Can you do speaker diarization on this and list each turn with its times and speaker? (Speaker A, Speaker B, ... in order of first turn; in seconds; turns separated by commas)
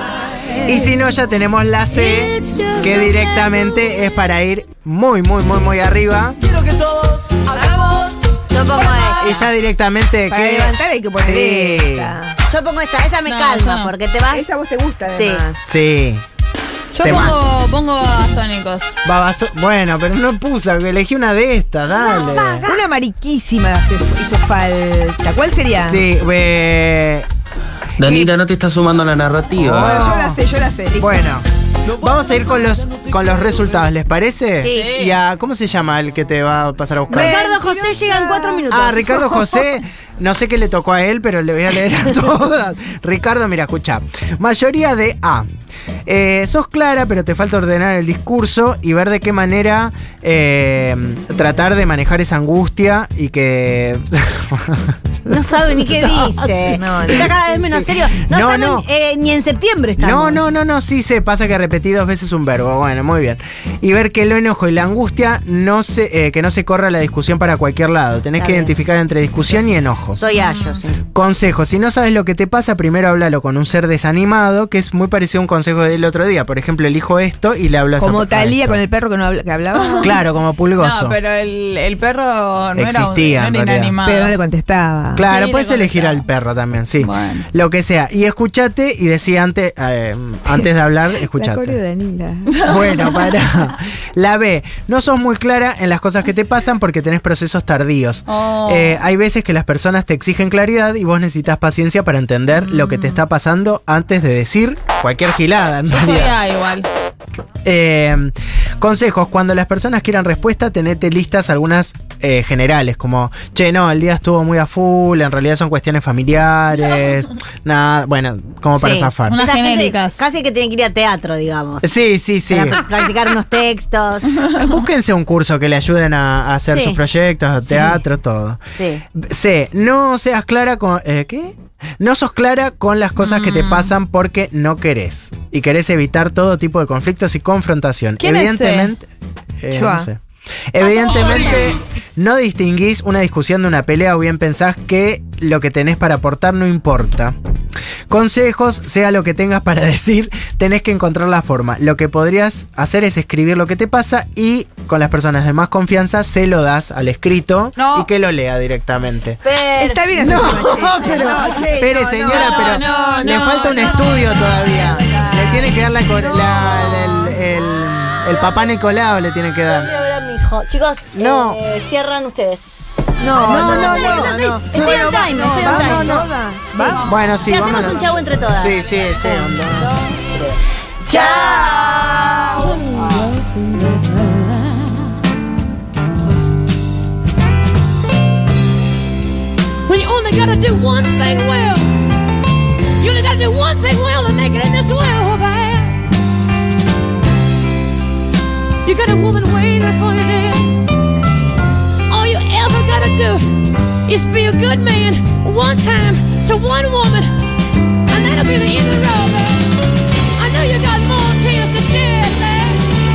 Speaker A: 0.5-0.9, Speaker B: 0.6-6.4, Speaker A: 1.9-3.7, Speaker C: 6.7-7.8, Speaker A: 8.5-9.5, Speaker B: 9.2-12.2, Speaker D: 10.3-12.4, Speaker A: 12.5-15.4, Speaker E: 13.2-13.9, Speaker D: 14.3-15.6, Speaker B: 15.6-16.2, Speaker E: 16.9-18.9, Speaker B: 17.0-17.4, Speaker A: 17.1-17.3, Speaker B: 19.0-22.7, Speaker A: 21.9-22.8, Speaker D: 22.3-26.1, Speaker B: 25.7-27.3, Speaker C: 28.0-30.1, Speaker B: 29.6-30.4, Speaker D: 29.7-31.3, Speaker B: 31.0-37.5, Speaker A: 34.6-34.9, Speaker E: 34.7-35.2, Speaker A: 37.1-39.2, Speaker D: 37.1-38.6, Speaker B: 38.7-45.5, Speaker B: 46.1-58.9, Speaker A: 55.3-60.5, Speaker D: 56.6-57.4, Speaker B: 60.0-70.2, Speaker A: 68.3-68.8, Speaker A: 70.1-71.0, Speaker E: 70.3-70.8, Speaker B: 71.1-78.8, Speaker D: 78.0-80.2, Speaker E: 79.7-80.2, Speaker B: 80.0-81.2, Speaker E: 80.8-84.4, Speaker B: 82.7-83.9, Speaker D: 84.0-85.2, Speaker B: 85.1-91.8, Speaker E: 85.3-86.3, Speaker E: 87.0-87.5, Speaker D: 91.3-92.7, Speaker E: 92.5-93.3, Speaker B: 92.6-106.4, Speaker E: 98.3-99.0, Speaker E: 102.5-103.2, Speaker E: 105.9-106.9, Speaker B: 107.6-119.4, Speaker A: 118.7-121.9, Speaker E: 119.3-120.2, Speaker B: 121.8-122.9, Speaker A: 122.5-124.4, Speaker B: 124.4-128.6, Speaker A: 126.6-127.0, Speaker A: 128.7-129.0, Speaker B: 129.2-139.1, Speaker E: 133.2-133.9, Speaker E: 138.2-138.9, Speaker B: 139.6-140.2, Speaker D: 139.7-140.1, Speaker B: 140.7-147.3, Speaker B: 148.1-159.4, Speaker E: 157.8-158.1, Speaker A: 159.4-160.4, Speaker D: 159.7-164.1, Speaker B: 160.2-169.9, Speaker A: 161.1-161.8, Speaker E: 162.2-164.5, Speaker A: 163.8-165.7, Speaker D: 165.1-165.6, Speaker D: 166.1-167.2, Speaker A: 166.8-167.2, Speaker A: 168.3-168.7, Speaker A: 169.7-180.2, Speaker B: 171.1-171.6, Speaker D: 173.2-177.6, Speaker B: 173.4-176.3, Speaker E: 176.9-177.7, Speaker B: 177.0-179.9, Speaker A: 181.0-181.8, Speaker E: 181.1-182.8, Speaker D: 181.1-182.6, Speaker A: 183.1-183.6, Speaker F: 189.9-191.9, Speaker F: 193.0-195.8, Speaker C: 194.7-195.9, Speaker F: 198.8-200.6, Speaker C: 199.4-200.8, Speaker F: 202.1-203.5, Speaker F: 204.1-207.4, Speaker F: 208.1-209.6, Speaker F: 210.3-212.8